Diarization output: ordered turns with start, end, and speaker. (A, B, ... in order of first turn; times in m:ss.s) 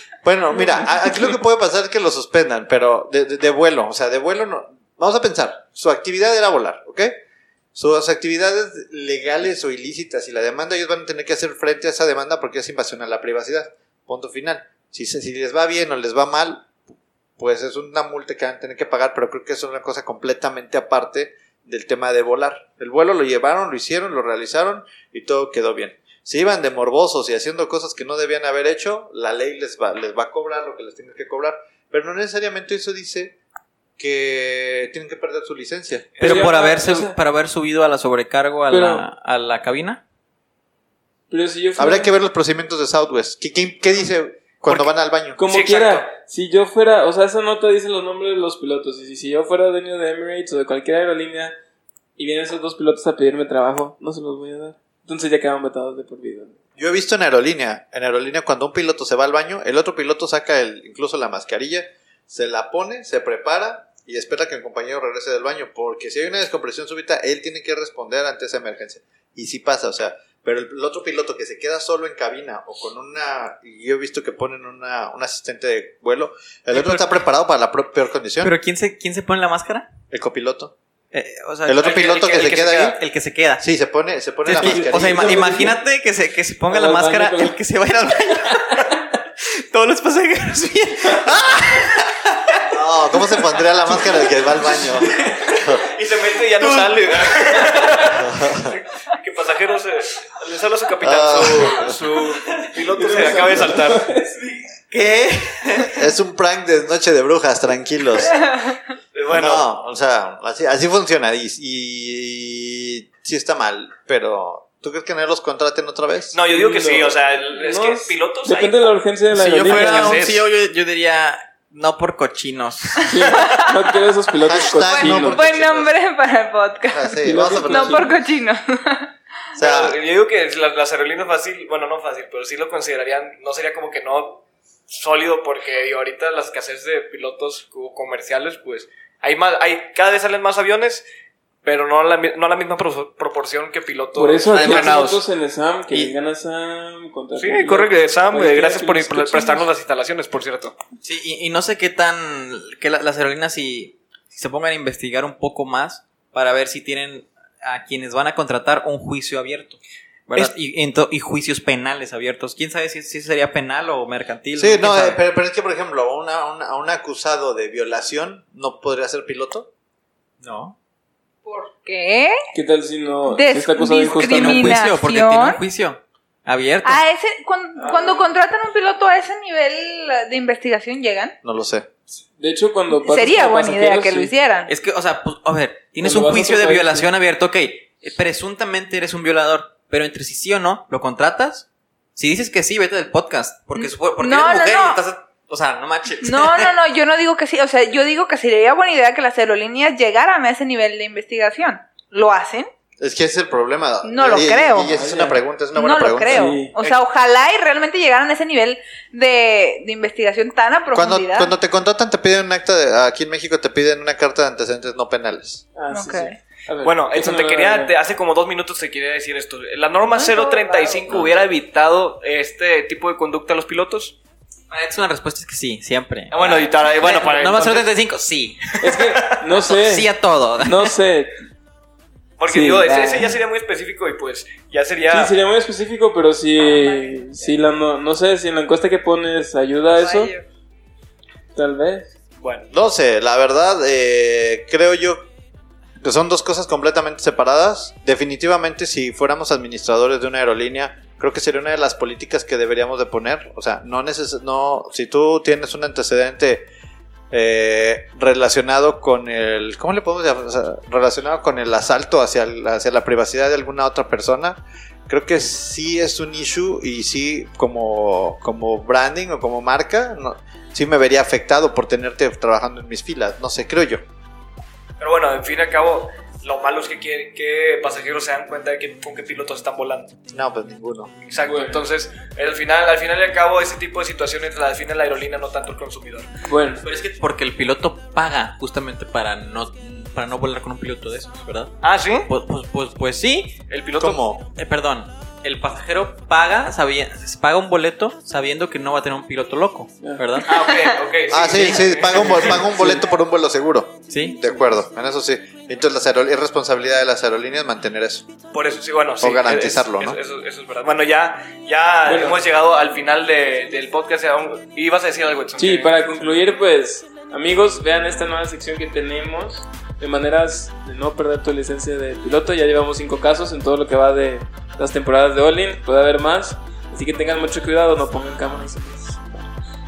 0:00.2-0:07.2 A
0:07.8-0:16.7 A
0:17.4-0:33.4 A
0:34.0-0:36.2 A
0:36.2-0:36.6 B
0:36.2-0:37.2 C
0:36.2-0:40.0 D
0:38.7-0:39.1 C
0:41.3-0:42.2 C
0:41.8-0:45.4 A
0:45.4-0:51.5 C
0:45.4-0:46.0 B
0:52.2-0:56.6 C
0:56.8-1:18.5 A
1:16.7-1:17.2 D
1:18.4-1:19.9 D
1:20.1-1:20.7 A
1:21.1-1:23.6 D
1:21.7-1:23.0 A
1:21.8-1:23.0 B
1:23.6-1:25.6 A
1:24.4-1:32.6 D
1:24.5-1:25.8 C
1:26.7-1:27.6 C
1:32.7-1:35.8 A
1:35.5-1:44.1 B
1:36.6-1:36.9 D
1:38.2-1:38.7 A
1:41.0-1:42.0 A
1:42.9-1:44.5 C
1:44.9-1:46.0 D
1:45.9-1:48.4 A
1:49.2-1:49.7 B
1:49.3-1:56.4 A
1:56.3-1:58.9 B
1:56.5-2:00.3 C
1:59.3-2:03.1 D
1:59.8-2:00.4 B
2:03.0-2:03.8 E
2:03.1-2:05.4 C
2:04.5-2:05.9 A
2:04.8-2:09.1 E
2:06.9-2:08.1 A
2:07.2-2:08.2 C
2:09.6-2:10.0 A
2:09.6-2:21.0 B
2:21.6-2:25.3 B
2:24.2-2:29.7 C
2:24.5-2:25.0 D
2:27.4-2:30.8 B
2:31.0-2:45.2 D
2:44.6-2:49.7 A
2:50.4-2:50.8 D
2:51.4-2:52.4 E
2:52.5-2:54.8 C
2:53.3-2:55.6 E
2:54.3-2:57.0 D
2:56.8-3:01.4 E
2:57.8-2:58.2 C
3:01.4-3:01.9 A
3:02.2-3:04.3 C
3:02.9-3:04.7 E
3:04.7-3:16.7 D
3:06.0-3:07.1 C
3:13.8-3:15.0 E
3:16.2-3:22.7 E
3:23.0-3:26.5 A
3:24.0-3:24.9 E
3:24.8-3:25.4 C
3:25.7-3:31.5 E
3:26.3-3:26.8 C
3:30.9-3:35.6 A
3:35.8-3:38.0 C
3:35.9-3:36.3 E
3:36.8-3:44.2 B
3:40.1-3:41.2 E
3:41.1-3:41.4 D
3:44.7-3:48.6 D
3:46.3-3:47.9 B
3:48.8-3:50.1 C
3:48.8-3:49.4 B
3:49.6-3:50.8 D
3:50.6-3:51.4 C
3:52.4-3:55.3 B
3:52.5-3:53.4 C
3:55.1-4:00.3 C
3:56.6-3:57.6 E
4:00.0-4:00.4 E
4:01.6-4:02.1 C
4:02.4-4:02.7 B
4:02.7-4:05.3 A
4:06.0-4:16.7 A
4:17.3-4:34.0 A
4:35.0-4:40.1 B
4:40.3-4:41.1 A
4:41.3-4:46.3 B
4:41.4-4:41.8 C
4:46.5-4:46.8 C
4:46.8-4:53.6 D
4:51.8-4:52.3 B
4:53.7-4:54.2 B
4:54.0-4:54.5 A
4:54.5-5:00.6 D
5:00.5-5:02.6 B
5:00.6-5:00.9 E
5:01.3-5:08.2 A
5:02.2-5:03.0 C
5:04.1-5:04.4 D
5:08.5-5:16.0 B
5:09.2-5:10.2 A
5:12.0-5:12.4 C
5:15.6-5:29.5 C